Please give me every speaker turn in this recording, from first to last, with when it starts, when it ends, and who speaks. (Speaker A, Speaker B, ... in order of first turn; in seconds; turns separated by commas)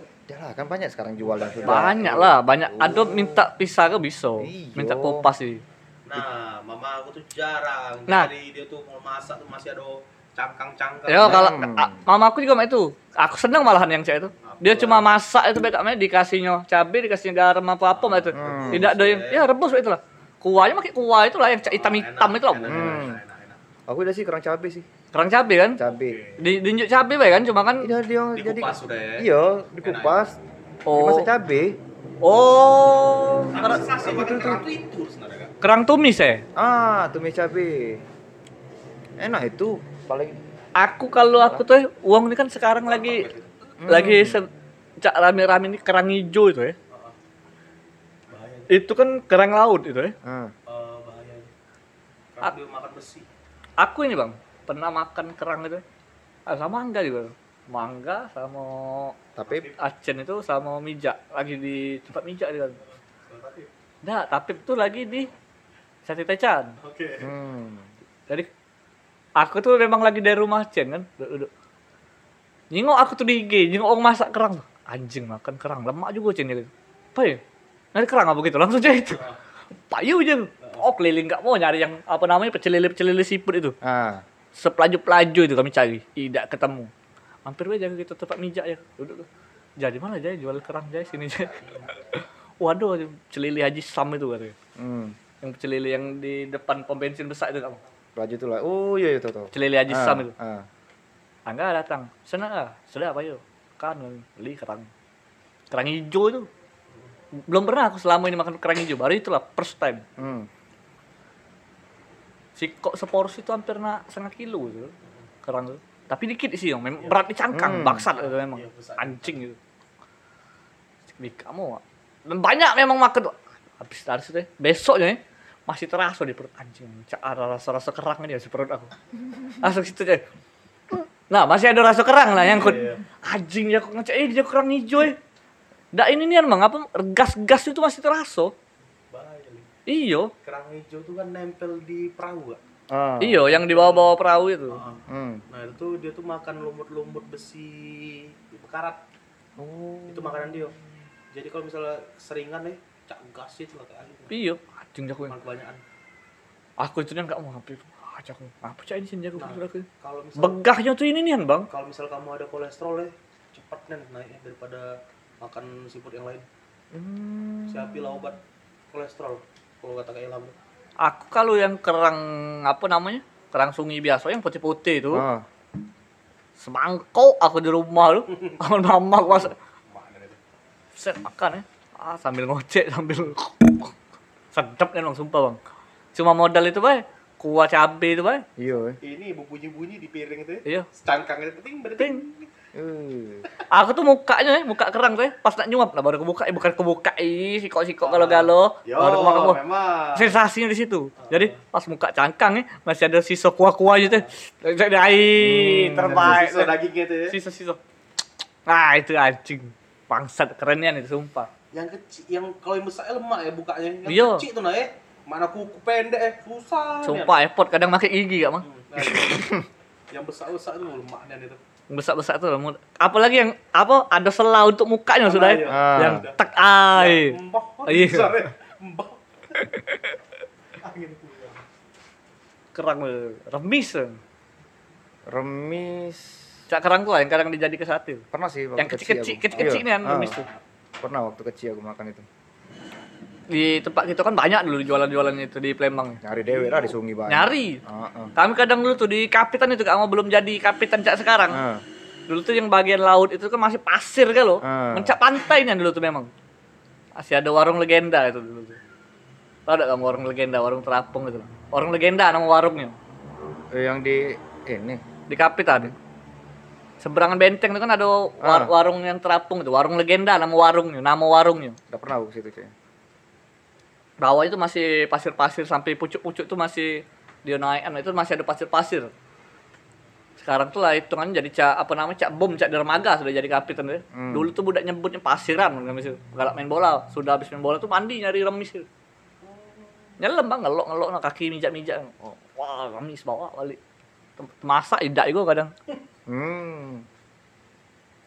Speaker A: 0.3-3.5, Speaker B: 1.2-1.9, Speaker C: 1.6-5.6, Speaker A: 4.4-5.3, Speaker B: 6.1-11.7, Speaker C: 11.1-23.1, Speaker A: 11.2-12.0, Speaker B: 14.4-15.1, Speaker B: 17.9-19.5, Speaker A: 18.4-18.9, Speaker B: 21.6-23.6, Speaker A: 22.7-23.2, Speaker A: 23.9-24.9, Speaker C: 25.1-25.8, Speaker A: 25.8-26.2, Speaker B: 25.8-26.6, Speaker C: 26.4-27.9, Speaker A: 27.8-30.4, Speaker B: 28.4-29.3, Speaker B: 29.8-30.3, Speaker C: 30.9-31.3, Speaker A: 30.9-31.8, Speaker C: 32.2-33.8, Speaker B: 33.5-35.5, Speaker A: 33.8-34.6, Speaker C: 35.6-36.5, Speaker A: 36.5-38.0, Speaker A: 39.2-40.4, Speaker C: 40.8-43.3, Speaker B: 42.8-43.7, Speaker A: 43.8-44.4, Speaker C: 43.9-44.5, Speaker C: 45.0-46.8, Speaker B: 46.9-47.2, Speaker B: 48.3-48.8, Speaker C: 48.7-50.1, Speaker A: 50.2-50.5, Speaker B: 50.7-51.5, Speaker B: 52.3-53.3, Speaker C: 53.8-55.8, Speaker C: 56.5-59.1, Speaker A: 59.4-59.7, Speaker B: 59.4-59.8, Speaker C: 59.8-62.8, Speaker B: 63.3-63.7, Speaker C: 64.0-65.3, Speaker C: 66.0-66.8, Speaker B: 66.8-67.3, Speaker A: 67.2-67.9, Speaker C: 69.4-71.5, Speaker C: 72.7-77.4, Speaker C: 78.0-79.3, Speaker B: 79.1-79.4, Speaker C: 79.9-83.8, Speaker B: 80.6-80.9, Speaker A: 83.8-84.2, Speaker C: 84.5-86.9, Speaker C: 87.5-89.3, Speaker C: 89.8-94.5, Speaker A: 94.8-95.2, Speaker C: 95.4-97.8, Speaker A: 98.2-100.7, Speaker C: 99.5-100.3, Speaker C: 101.5-104.9, Speaker C: 105.7-106.5, Speaker C: 107.4-110.0, Speaker A: 110.2-110.5, Speaker C: 112.6-119.6, Speaker A: 117.5-118.1, Speaker B: 118.1-119.4, Speaker C: 121.2-128.9, Speaker C: 129.6-130.2, Speaker C: 130.9-135.2, Speaker B: 132.3-133.0, Speaker C: 135.9-138.5, Speaker B: 139.1-139.7, Speaker C: 139.9-140.3, Speaker B: 140.4-142.6, Speaker A: 142.9-143.5, Speaker C: 143.2-144.8, Speaker B: 143.5-144.1, Speaker B: 144.7-149.0, Speaker A: 145.1-145.4, Speaker A: 149.6-150.8, Speaker B: 150.1-150.8, Speaker B: 151.3-154.3, Speaker C: 154.3-155.3, Speaker B: 155.2-155.8, Speaker C: 156.8-159.9, Speaker B: 159.4-160.6, Speaker C: 160.4-161.7, Speaker B: 161.7-166.5, Speaker A: 166.9-168.2, Speaker B: 167.7-168.4, Speaker B: 168.9-170.6, Speaker C: 171.0-175.2, Speaker A: 175.1-175.5, Speaker C: 176.6-179.5, Speaker B: 178.3-178.6, Speaker B: 179.3-180.4, Speaker C: 181.0-183.9, Speaker C: 184.5-185.6, Speaker C: 186.2-188.4, Speaker A: 188.6-189.0, Speaker B: 189.0-192.5, Speaker C: 192.0-192.2, Speaker A: 192.8-193.5, Speaker C: 193.7-199.6, Speaker B: 198.0-200.4, Speaker C: 200.2-206.8, Speaker B: 201.2-201.6, Speaker B: 204.0-204.3, Speaker A: 205.4-206.4, Speaker B: 206.0-207.3, Speaker C: 207.3-207.8, Speaker C: 208.7-211.5, Speaker B: 211.7-217.3, Speaker C: 214.1-214.4, Speaker C: 217.1-219.5, Speaker B: 218.6-219.6, Speaker B: 220.1-221.6, Speaker C: 221.9-228.5, Speaker B: 225.2-226.4, Speaker A: 225.7-226.2, Speaker B: 226.9-229.2, Speaker B: 230.8-231.6, Speaker C: 232.7-234.2, Speaker A: 235.3-236.5, Speaker C: 236.7-238.2, Speaker A: 238.3-240.4, Speaker C: 238.8-240.5, Speaker B: 239.5-240.6, Speaker A: 241.0-242.2, Speaker C: 243.5-246.2, Speaker A: 246.2-248.3, Speaker B: 246.4-246.9, Speaker C: 247.3-247.8, Speaker C: 248.4-251.6, Speaker A: 251.5-251.8, Speaker C: 252.3-256.3, Speaker A: 254.6-255.2, Speaker C: 257.2-258.8, Speaker C: 259.7-263.0, Speaker A: 263.7-265.0, Speaker C: 265.3-265.9, Speaker C: 267.0-271.8, Speaker A: 268.4-268.7, Speaker A: 271.9-272.7, Speaker C: 274.2-279.1, Speaker C: 280.4-288.9, Speaker A: 284.1-284.5, Speaker B: 289.4-290.2, Speaker C: 290.2-293.8, Speaker C: 294.4-295.7, Speaker A: 296.3-297.1